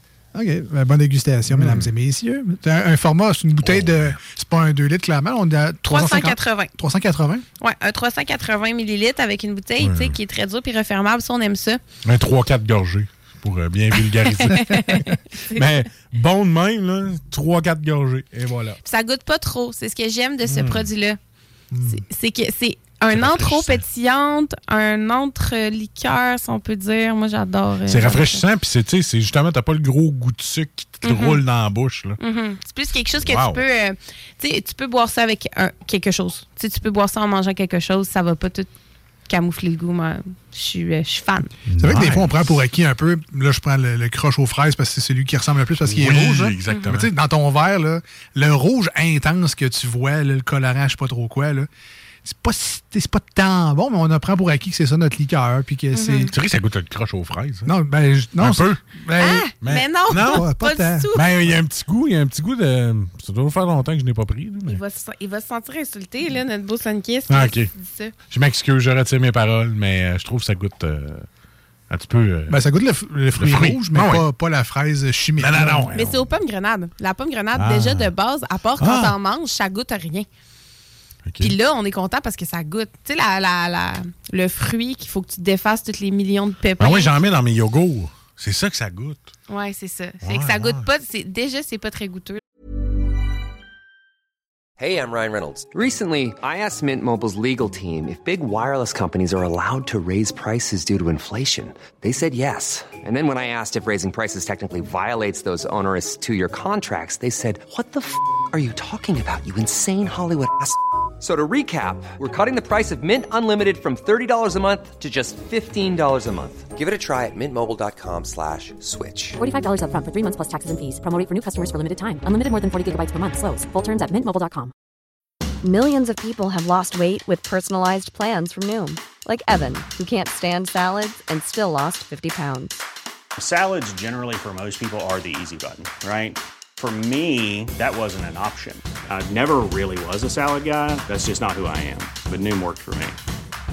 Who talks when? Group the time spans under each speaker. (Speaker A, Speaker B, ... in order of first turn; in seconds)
Speaker A: 0.3-7.4, 21.7-22.0, 41.8-51.7, 52.2-56.3, 57.6-59.5, 60.1-61.1, 72.5-75.9
Speaker B: 1.5-1.9, 3.6-4.2, 9.8-10.2, 12.0-18.8, 20.5-20.9, 23.1-23.8, 27.9-32.2, 33.2-33.6, 41.7-42.5, 45.8-47.1, 56.3-57.7, 58.4-58.8, 59.6-60.5, 61.1-64.8, 67.3-67.7, 68.3-71.2, 71.9-72.6, 73.4-74.2, 75.4-76.3, 77.5-78.1, 78.8-79.2, 81.2-81.5, 86.8-89.3, 90.2-90.9
Speaker C: 5.8-6.7, 7.6-11.8, 14.4-15.7, 18.8-21.2, 21.9-28.4, 31.0-31.4, 32.2-38.7, 39.3-41.5, 55.9-56.3, 59.2-61.3, 64.7-68.1, 75.9-80.3, 81.4-87.1, 89.5-92.4
Speaker D: 94.8-119.4
Speaker E: 119.4-124.7
Speaker F: 125.6-132.8
Speaker G: 133.4-143.2